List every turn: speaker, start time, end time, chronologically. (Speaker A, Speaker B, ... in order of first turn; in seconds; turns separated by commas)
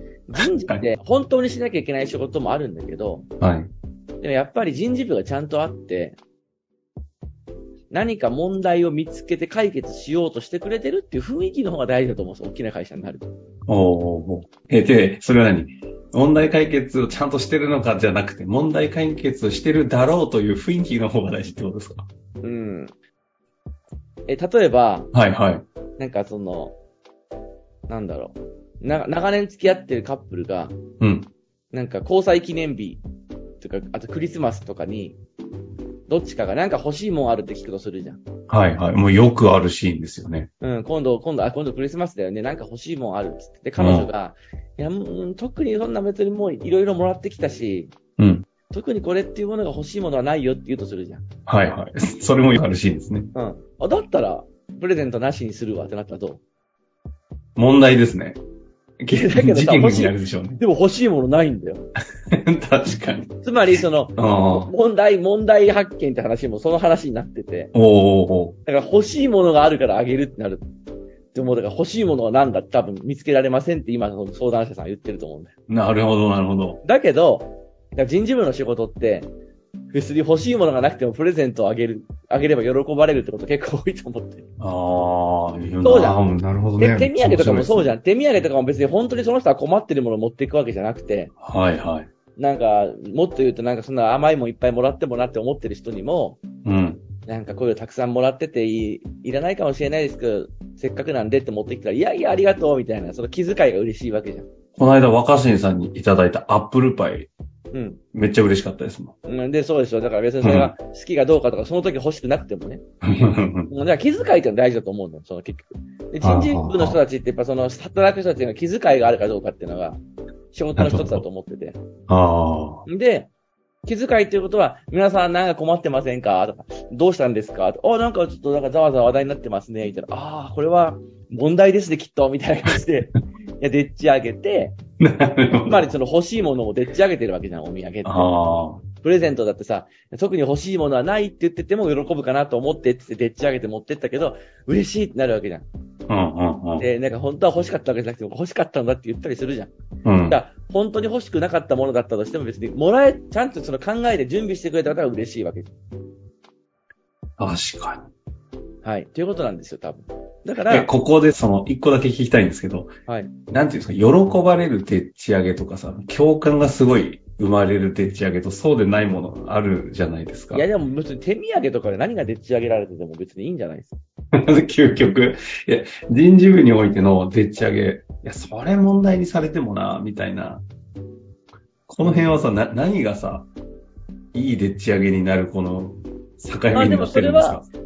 Speaker A: 0.3-3.3, Speaker B: 3.4-3.7, Speaker A: 4.2-6.2, Speaker A: 7.9-13.3, Speaker B: 13.7-22.1, Speaker A: 22.4-22.9, Speaker A: 24.3-25.1, Speaker B: 25.1-25.6, Speaker A: 26.0-26.8, Speaker A: 27.9-30.8, Speaker B: 31.0-31.3, Speaker A: 31.7-33.0, Speaker A: 33.6-35.2, Speaker A: 36.1-38.2, Speaker B: 38.5-40.5, Speaker A: 40.6-48.0, Speaker B: 43.8-44.1, Speaker B: 48.2-48.5, Speaker A: 48.7-51.3, Speaker B: 51.5-53.3, Speaker A: 53.3-56.4, Speaker B: 57.6-58.4, Speaker B: 59.0-60.6, Speaker A: 59.1-61.9, Speaker B: 62.3-63.4, Speaker A: 63.4-67.7, Speaker B: 64.2-64.7, Speaker B: 67.7-68.6, Speaker A: 68.7-70.7, Speaker A: 71.3-75.5, Speaker B: 75.7-76.8, Speaker A: 76.8-79.3, Speaker A: 79.9-84.5, Speaker B: 84.6-87.9, Speaker A: 85.8-86.2, Speaker A: 86.8-91.3, Speaker B: 91.4-92.1, Speaker A: 92.3-96.4, Speaker B: 96.6-97.0, Speaker A: 97.2-104.5, Speaker B: 104.8-107.3, Speaker A: 107.7-108.0, Speaker B: 108.1-109.2, Speaker A: 109.2-112.8, Speaker B: 110.4-110.8, Speaker B: 113.0-113.7, Speaker A: 113.6-120.0, Speaker B: 116.2-117.0, Speaker A: 120.5-121.8, Speaker B: 120.8-121.2, Speaker B: 122.1-122.8, Speaker A: 122.9-123.3, Speaker A: 123.8-134.8, Speaker B: 135.0-135.9, Speaker A: 135.6-145.7, Speaker B: 138.0-138.8, Speaker B: 146.1-146.9, Speaker A: 146.8-149.7, Speaker B: 150.0-150.4, Speaker A: 150.3-155.7, Speaker B: 157.4-158.1, Speaker A: 158.8-160.9, Speaker B: 160.7-162.9, Speaker A: 163.1-163.4, Speaker B: 163.5-170.7, Speaker A: 170.5-174.0, Speaker B: 174.3-180.6, Speaker B: 181.9-183.5, Speaker A: 182.0-182.5, Speaker B: 184.3-187.7, Speaker A: 186.7-187.6